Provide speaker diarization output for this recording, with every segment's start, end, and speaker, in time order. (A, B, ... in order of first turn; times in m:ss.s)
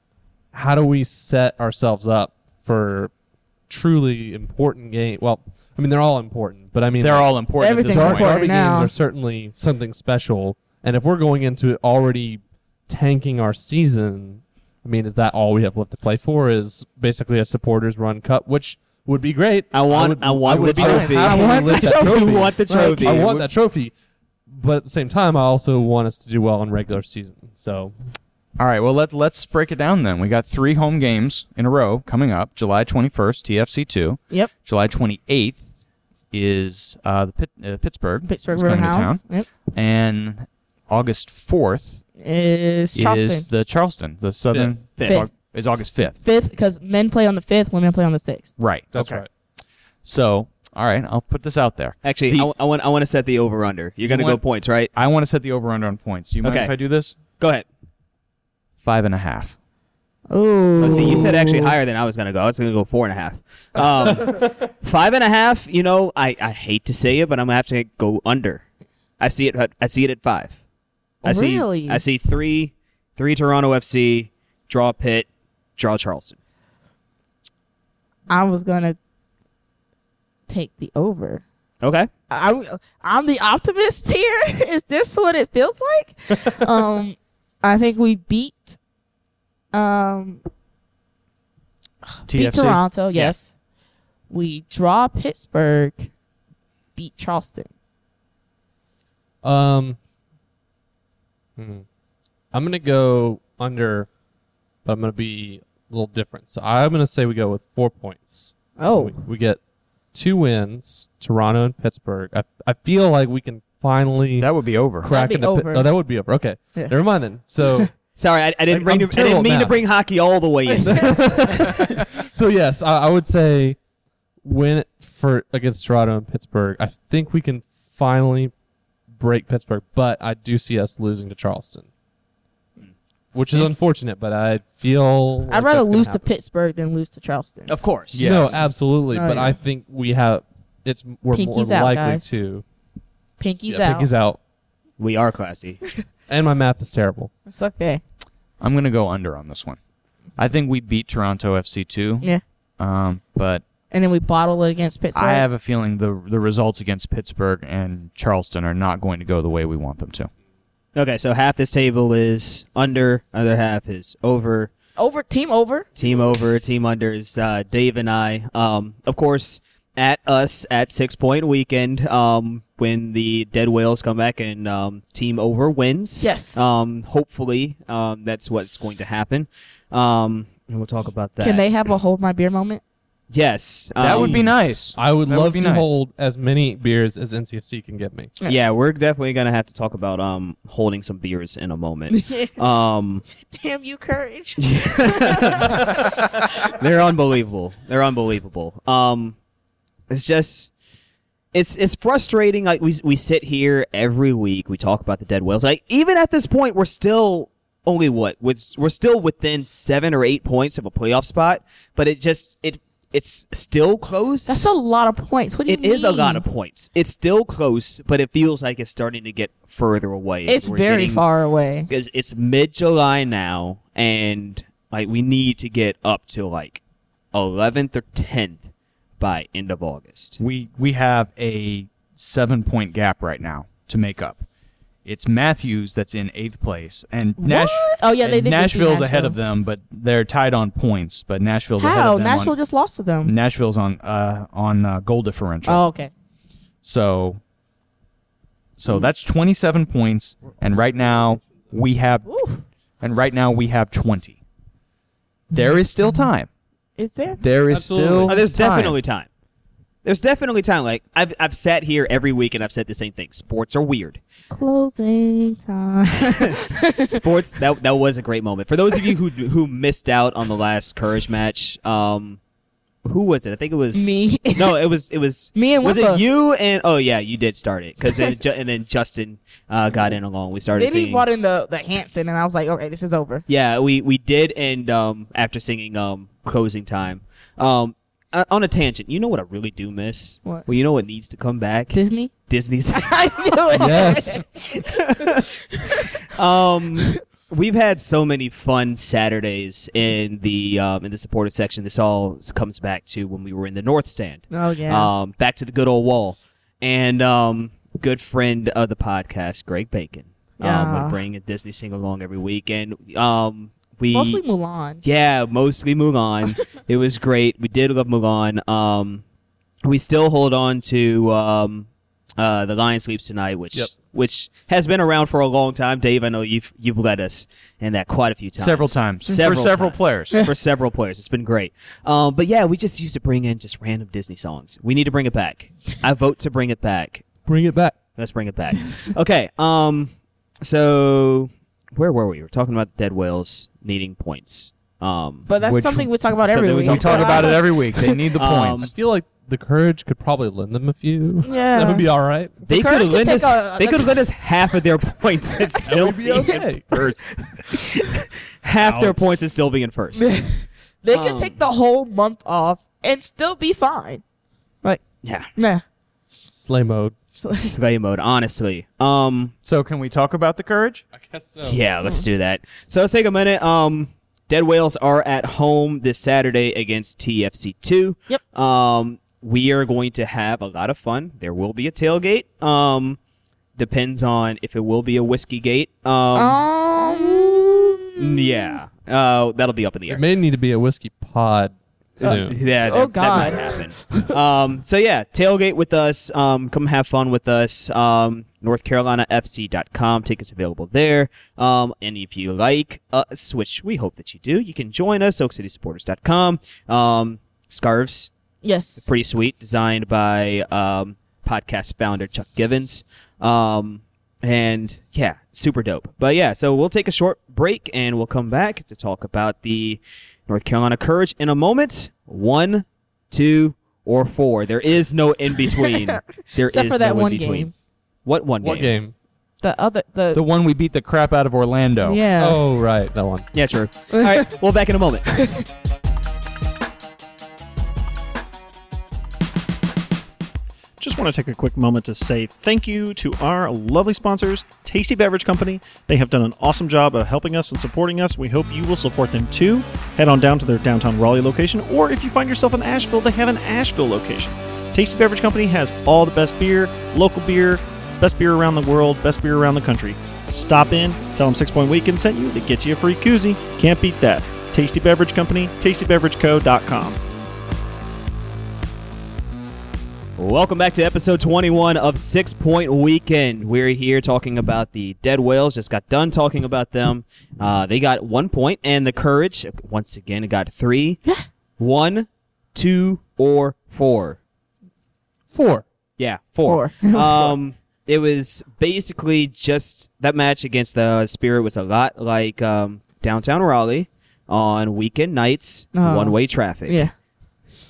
0:00.5-0:03.1 A
0:03.7-0:23.9 A
0:07.0-0:08.4 B
0:07.6-0:08.9 C
0:19.7-0:23.5 D
0:20.5-0:21.6 B
0:21.2-0:23.2 C
0:24.5-0:27.9 A
0:28.6-0:35.7 B
0:36.3-0:42.0 B
0:38.3-0:39.5 C
0:42.2-0:43.5 C
0:43.0-0:46.2 B
0:44.5-0:44.8 A
0:45.0-0:45.3 D
0:45.0-0:45.3 C
0:46.1-0:48.5 C
0:48.6-0:49.2 B
0:48.9-0:49.3 A
0:50.0-0:52.5 B
0:52.0-0:54.9 D
0:54.0-0:54.4 B
0:54.9-0:57.2 B
0:56.4-0:56.7 D
0:57.4-0:57.7 D
0:58.8-0:59.6 B
1:00.3-1:01.7 C
1:00.8-1:08.6 D
1:09.2-1:10.6 D
1:11.2-1:12.0 C
1:11.2-1:16.4 D
1:18.3-1:19.0 C
1:20.5-1:21.4 C
1:21.8-1:22.1 D
1:22.3-1:28.8 C
1:29.7-1:30.4 C
1:32.2-1:33.5 C
1:32.3-1:32.8 B
1:34.3-1:36.1 C
1:37.0-1:37.7 C
1:39.4-1:40.0 A
1:41.6-1:41.8 A
1:42.5-1:44.1 A
1:44.8-1:49.6 A
1:48.8-1:49.2 C
1:50.1-1:58.0 A
1:54.4-1:55.1 B
1:55.1-1:55.9 C
1:57.6-1:57.9 C
1:58.2-2:02.0 D
1:58.7-1:59.8 A
2:00.7-2:01.3 C
2:00.8-2:03.8 A
2:04.4-2:08.5 A
2:09.1-2:11.9 A
2:13.3-2:16.2 A
2:15.5-2:17.7 C
2:17.7-2:18.6 D
2:18.1-2:18.6 B
2:18.2-2:22.6 A
2:19.1-2:19.6 C
2:21.3-2:22.4 C
2:23.4-2:24.1 C
2:23.7-2:24.4 A
2:25.0-2:25.8 D
2:26.3-2:27.3 A
2:27.5-2:28.0 C
2:28.6-2:29.8 B
2:30.4-2:33.6 B
2:33.9-2:35.4 C
2:35.2-2:40.3 B
2:41.0-2:44.7 D
2:45.0-2:45.9 C
2:46.0-3:01.6 D
2:56.2-2:56.6 C
3:01.4-3:02.8 C
3:03.3-3:04.7 D
3:04.0-3:06.0 B
3:04.1-3:08.3 A
3:08.5-3:13.2 D
3:12.1-3:12.5 C
3:13.3-3:16.0 C
3:14.6-3:19.4 D
3:20.1-3:20.7 D
3:21.5-3:34.6 D
3:34.5-3:36.4 C
3:35.7-3:41.2 D
3:40.5-3:41.9 C
3:41.9-3:46.8 D
3:47.3-3:50.4 D
3:50.4-3:54.4 B
3:55.0-4:02.6 B
3:57.4-3:59.4 C
4:01.8-4:03.3 C
4:03.2-4:05.8 B
4:05.6-4:06.1 C
4:06.8-4:07.4 B
4:08.8-4:12.3 B
4:12.3-4:12.6 C
4:13.0-4:14.4 B
4:15.5-4:16.5 B
4:17.0-4:17.4 C
4:17.4-4:19.0 B
4:17.7-4:18.4 A
4:18.3-4:19.3 D
4:20.0-4:24.2 D
4:24.5-4:27.2 C
4:27.0-4:32.4 D
4:33.0-4:41.2 D
4:33.9-4:34.8 C
4:35.5-4:36.2 C
4:40.8-4:43.4 C
4:43.5-4:54.2 D
4:51.9-4:52.3 C
4:53.0-4:56.1 C
4:53.8-4:54.4 A
4:54.7-4:55.5 D
4:56.3-5:14.4 D
5:04.5-5:05.1 C
5:10.6-5:11.2 C
5:14.1-5:15.0 C
5:15.0-5:19.2 D
5:19.8-5:37.3 D
5:28.6-5:30.4 B
5:37.5-5:38.0 A
5:38.2-5:45.5 D
5:45.5-5:48.2 C
5:45.6-5:46.1 B
5:46.4-5:47.6 D
5:46.8-5:48.9 B
5:48.4-5:48.9 D
5:48.8-5:52.6 A
5:51.4-5:52.1 C
5:52.6-5:54.2 C
5:52.7-5:58.1 D
5:55.9-5:57.1 A
5:56.3-5:56.7 C
5:58.6-6:00.4 D
5:58.8-5:59.2 A
6:00.2-6:04.2 C
6:01.1-6:01.6 D
6:05.2-6:05.5 D
6:05.6-6:05.8 C
6:06.5-6:07.2 A
6:07.4-6:07.7 C
6:07.5-6:09.5 D
6:09.6-6:11.0 B
6:11.1-6:11.8 A
6:11.6-6:23.2 D
6:23.8-6:26.6 D
6:26.4-6:28.8 C
6:28.2-6:30.2 D
6:30.1-6:32.6 A
6:32.2-6:48.3 D
6:32.2-6:34.3 C
6:48.6-6:49.1 C
6:49.0-7:07.7 D
7:05.8-7:07.7 C
7:08.2-7:08.9 D
7:08.6-7:09.1 A
7:09.6-7:10.4 C
7:10.3-7:12.2 B
7:12.0-7:12.6 C
7:12.4-7:13.5 A
7:13.5-7:15.3 D
7:14.1-7:14.5 C
7:15.3-7:15.6 C
7:21.0-7:47.2 E
7:50.4-8:01.2 D
8:01.8-8:04.4 D
8:05.5-8:05.8 A
8:06.2-8:17.0 D
8:06.6-8:07.6 C
8:15.9-8:17.1 C